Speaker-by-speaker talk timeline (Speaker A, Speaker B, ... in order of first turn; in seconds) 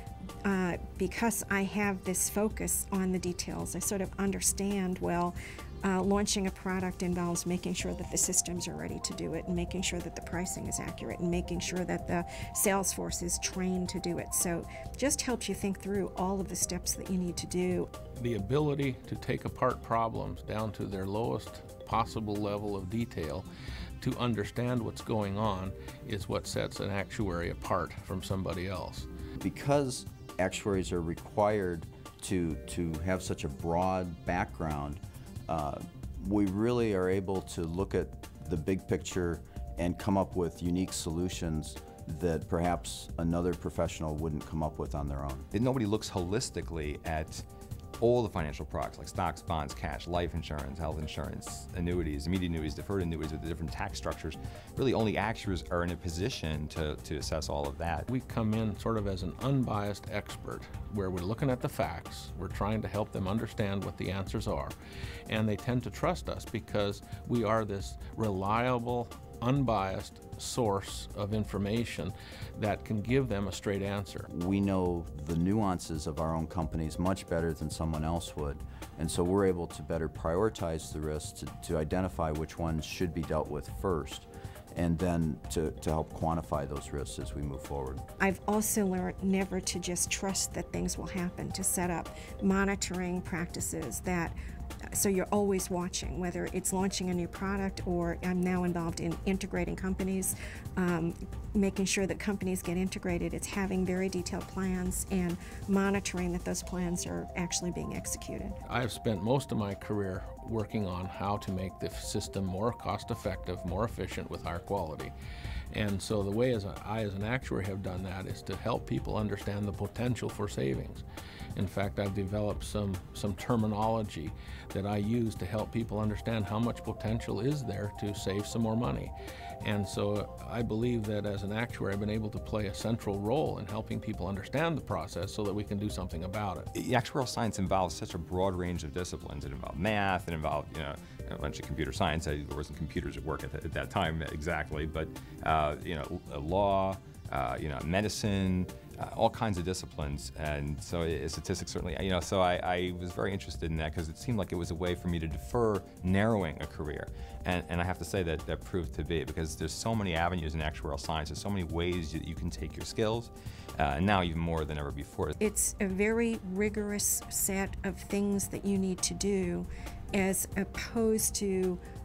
Speaker A: 0.4-17.9, 88.2-94.3, 94.9-108.6, 165.4-171.8
Speaker B: 18.1-23.4, 24.0-29.1, 58.1-64.7, 65.3-74.3, 108.7-115.1, 115.7-121.0, 121.5-136.7
Speaker C: 29.4-45.5, 74.3-88.0
Speaker D: 45.5-47.4, 48.0-58.0, 136.7-165.3